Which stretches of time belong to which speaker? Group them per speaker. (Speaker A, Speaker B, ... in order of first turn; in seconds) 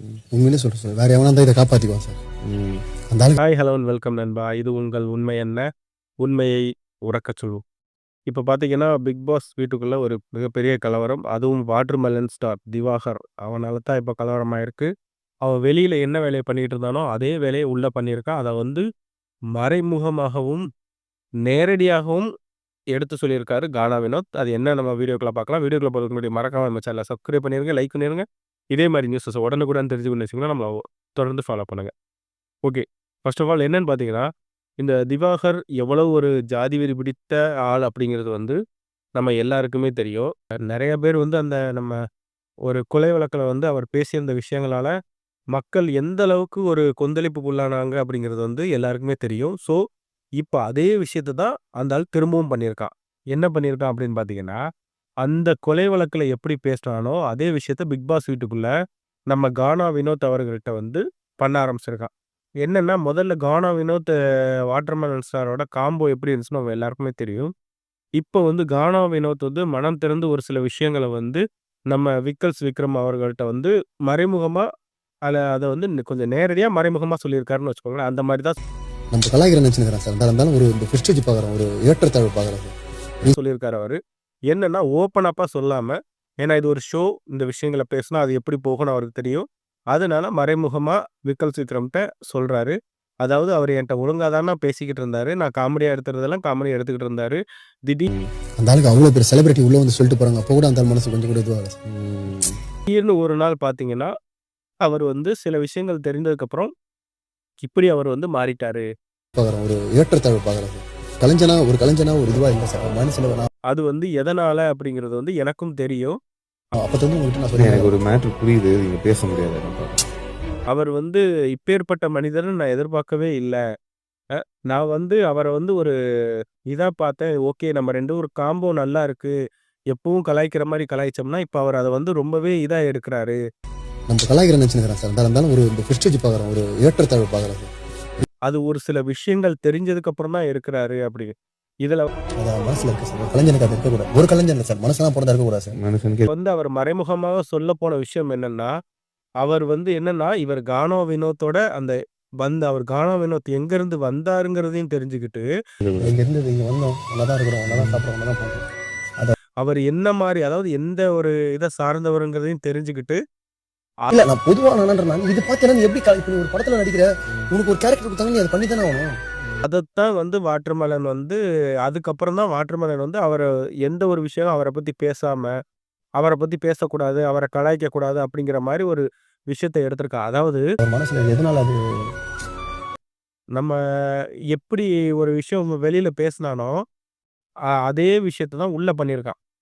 Speaker A: 0.3-2.2, 79.1-83.3, 98.6-101.8, 109.4-113.5, 116.8-118.0, 134.1-137.7, 142.4-145.8, 156.0-158.7, 164.1-169.1, 180.8-181.8
Speaker B: 2.5-2.8, 101.9-102.6, 117.5-120.0, 145.8-146.3, 155.8-156.2, 157.7-158.0
Speaker C: 3.4-5.7, 6.2-7.6, 8.3-14.9, 15.4-18.8, 19.6-20.6, 21.4-22.3, 22.9-31.9, 32.7-34.3, 34.8-38.6, 39.2-42.0, 42.7-44.9, 45.5-49.8, 50.4-54.6, 55.2-58.7, 59.3-62.1, 62.6-64.1, 64.7-67.5, 68.2-74.7, 75.3-78.5, 83.3-84.0, 84.5-98.1, 102.9-104.1, 104.8-106.7, 107.6-108.9, 113.7-116.2, 120.7-123.6, 124.7-125.9, 126.7-129.3, 129.9-133.4, 138.5-141.3, 146.3-148.7, 149.4-155.5, 159.6-163.2, 169.6-175.5, 176.2-180.6, 184.5-186.8, 187.9-189.4